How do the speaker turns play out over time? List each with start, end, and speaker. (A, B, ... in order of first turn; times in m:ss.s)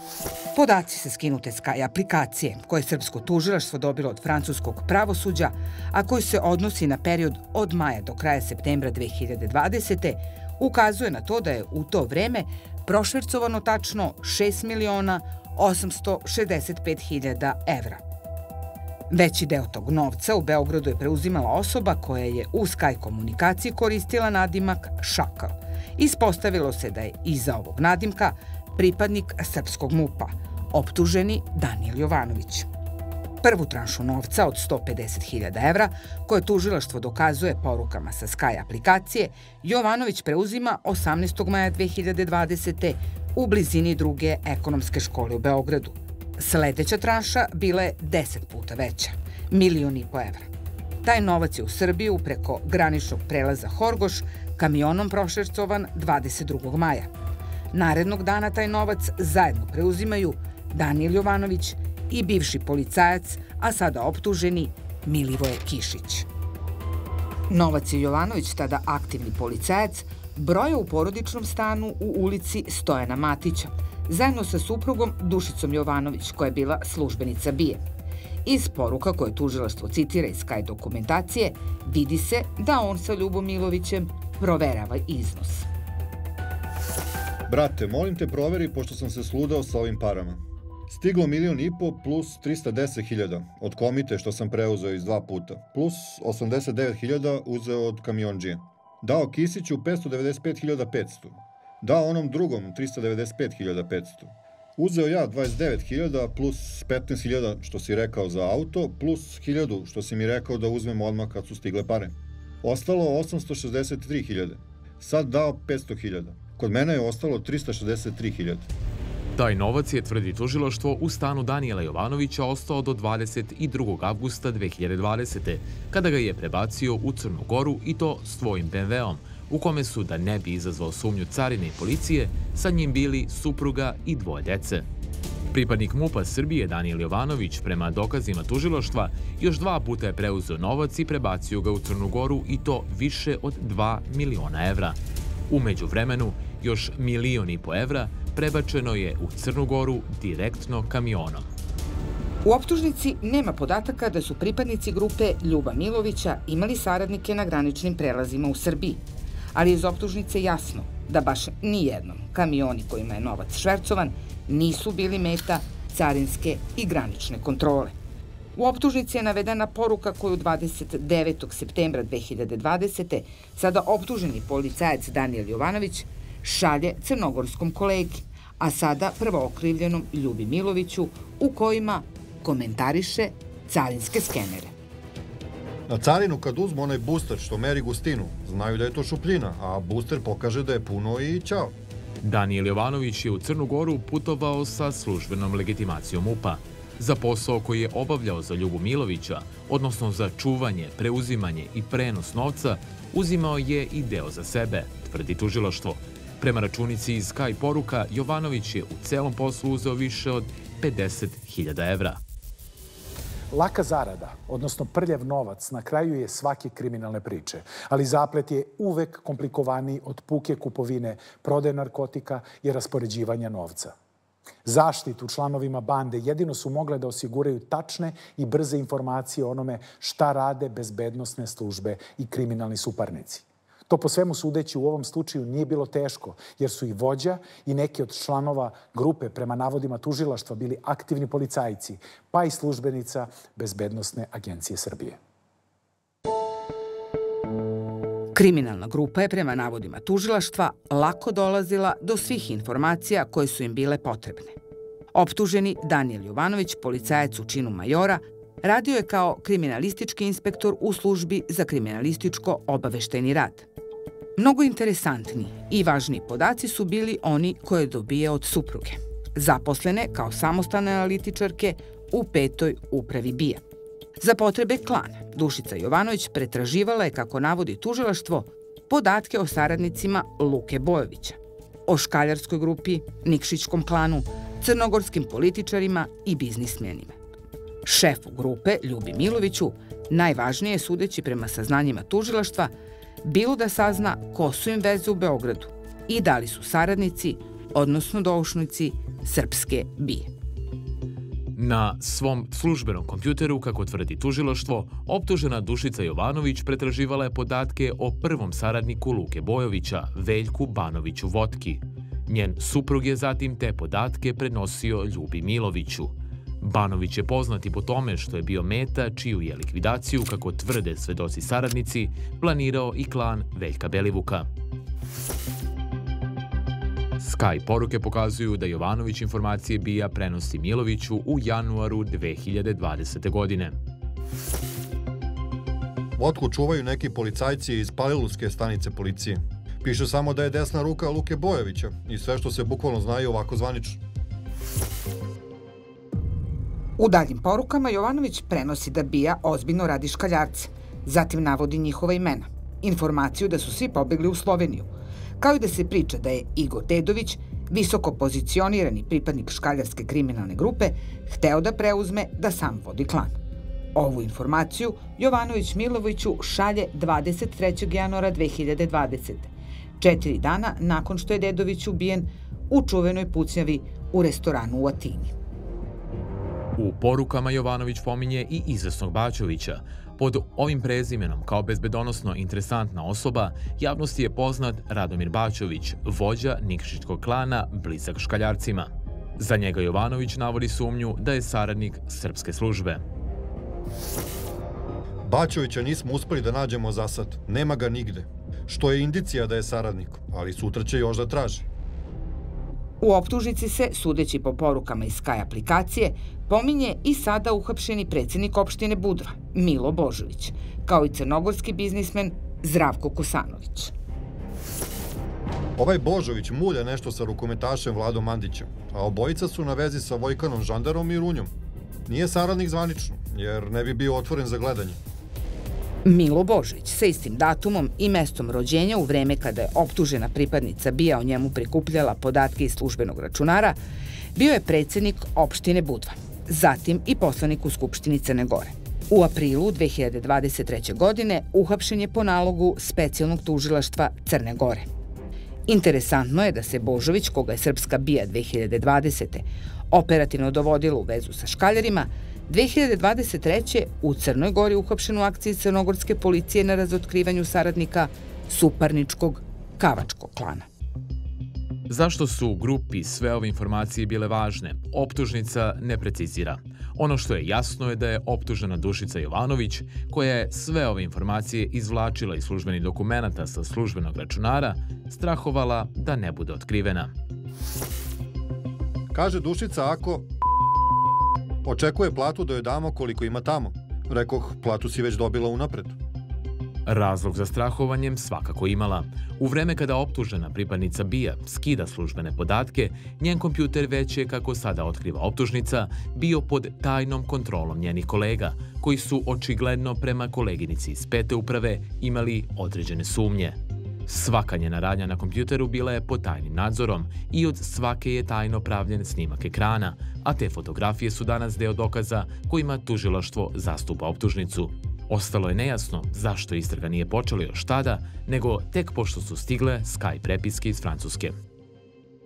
0:00.5-0:18.0 A
0:19.1-0:32.7 A
0:33.4-0:50.5 A
0:51.0-0:57.1 A
0:57.7-1:06.3 A
1:07.5-1:17.8 A
1:18.4-1:25.7 A
1:27.5-1:58.7 B
1:59.4-2:14.9 C
2:15.5-2:25.0 C
2:25.5-2:31.5 C
2:32.4-2:39.0 A
2:39.6-2:47.9 A
2:48.6-3:04.7 A
3:05.9-3:11.8 B
3:12.2-3:32.2 C
3:33.5-3:43.9 D
3:44.6-4:05.2 D
4:08.4-4:14.6 A
4:15.1-4:23.7 A
4:24.4-4:33.6 A
4:34.2-4:47.2 A
4:47.8-4:52.7 A
4:53.2-5:00.3 A
5:01.6-5:24.5 C
5:27.2-5:33.8 C
5:36.2-5:44.0 B
5:47.0-6:03.4 A
6:04.0-6:15.3 A
6:16.8-6:33.0 C
6:35.2-6:41.7 B
6:43.0-6:53.9 A
6:55.8-7:01.5 B
7:02.1-7:05.0 B
7:06.0-7:13.8 A
7:14.4-7:24.9 A
7:25.7-7:40.7 A
7:41.9-7:57.1 C
7:59.1-8:00.3 B
8:01.6-8:06.0 B
8:06.9-8:41.4 C